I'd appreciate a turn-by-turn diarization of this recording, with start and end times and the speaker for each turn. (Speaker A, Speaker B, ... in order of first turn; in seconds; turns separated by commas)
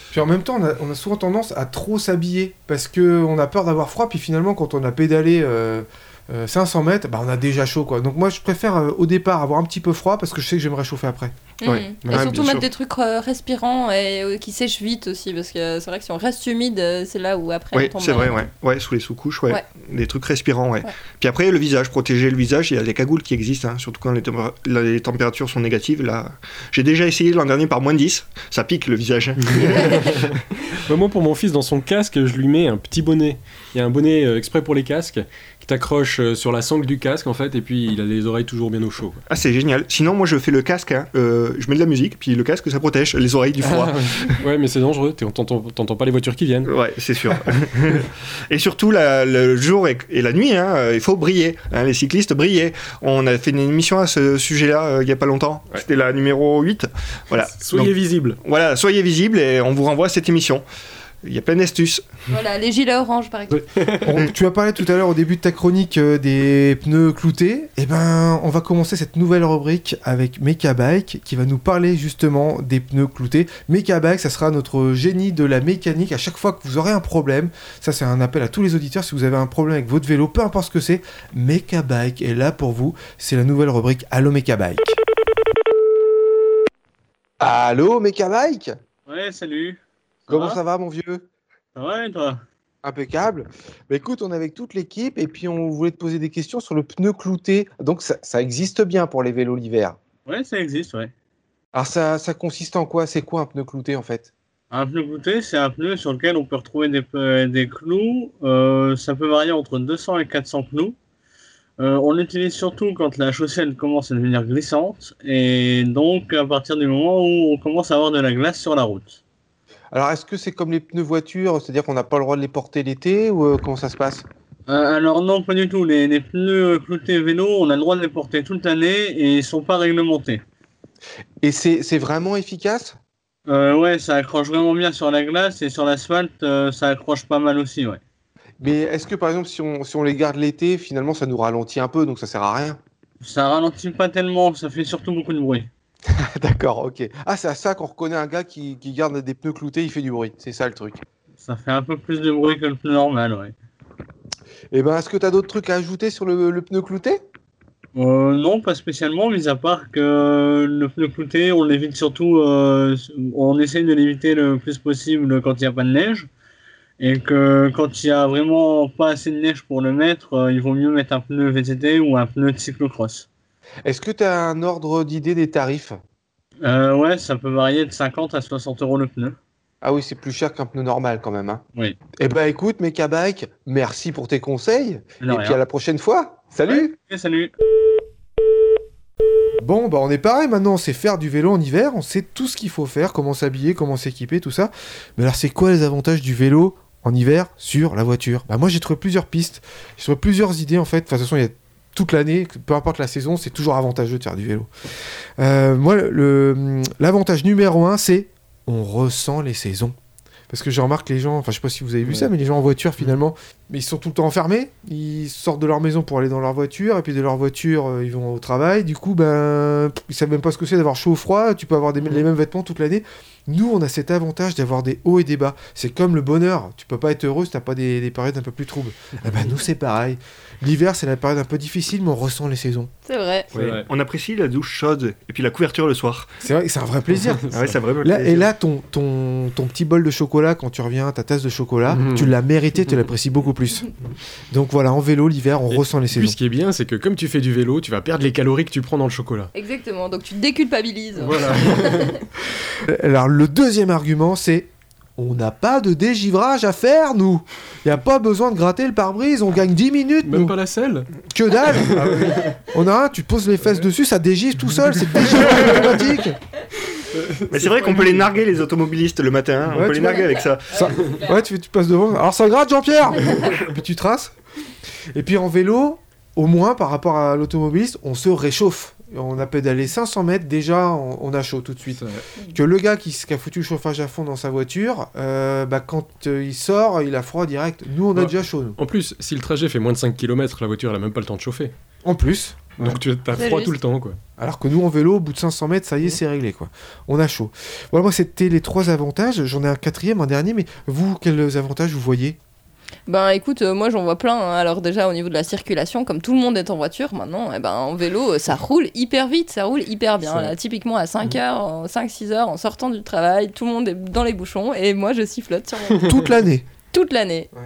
Speaker A: 0.1-11.3, Speaker B: 11.6-18.4, Speaker C: 11.6-12.7, Speaker D: 12.0-12.6, Speaker C: 17.7-30.2, Speaker D: 29.4-39.2, Speaker C: 39.3-44.4, Speaker D: 43.6-46.7, Speaker C: 46.6-60.6, Speaker D: 57.5-58.4, Speaker C: 61.2-62.0, Speaker B: 62.3-63.6, Speaker D: 63.5-64.2, Speaker A: 64.0-85.0, Speaker A: 87.4-88.7, Speaker E: 89.1-90.6, Speaker A: 90.3-91.2, Speaker E: 91.8-92.4, Speaker A: 92.8-100.0, Speaker E: 100.2-101.1, Speaker A: 101.7-104.3, Speaker E: 104.7-111.0, Speaker E: 111.8-119.2, Speaker A: 119.9-124.2, Speaker E: 124.7-130.4, Speaker A: 131.4-132.9, Speaker E: 133.5-138.0, Speaker A: 138.6-142.8, Speaker E: 143.2-145.7, Speaker A: 146.1-151.0, Speaker E: 151.4-153.5, Speaker A: 154.7-157.2, Speaker E: 157.9-166.3, Speaker E: 167.0-173.3, Speaker A: 173.8-176.0, Speaker E: 176.6-179.3, Speaker A: 179.8-181.6, Speaker A: 182.2-186.9, Speaker E: 185.2-185.6, Speaker E: 186.7-187.5, Speaker A: 189.6-204.7, Speaker A: 205.4-209.9, Speaker A: 210.5-232.9, Speaker B: 233.1-233.5, Speaker C: 233.5-236.3, Speaker D: 233.6-233.9, Speaker A: 236.4-237.4, Speaker D: 237.2-237.8, Speaker C: 237.5-238.5, Speaker A: 238.0-243.9, Speaker D: 241.9-242.3, Speaker A: 244.5-246.4, Speaker D: 245.7-249.5, Speaker B: 249.5-252.1, Speaker D: 251.2-252.2, Speaker A: 252.8-260.6, Speaker D: 260.2-261.1, Speaker A: 261.3-266.4, Speaker D: 261.7-262.6, Speaker D: 265.2-265.9, Speaker D: 267.1-268.3, Speaker C: 267.5-271.1, Speaker A: 269.7-274.3, Speaker B: 271.0-271.3, Speaker A: 275.1-288.8, Speaker D: 281.9-282.2, Speaker D: 288.1-291.7, Speaker A: 292.0-293.0, Speaker D: 292.8-294.2, Speaker B: 293.3-293.8, Speaker A: 294.4-302.4, Speaker B: 303.1-316.2, Speaker D: 310.2-310.5, Speaker A: 316.0-316.6, Speaker B: 316.9-317.5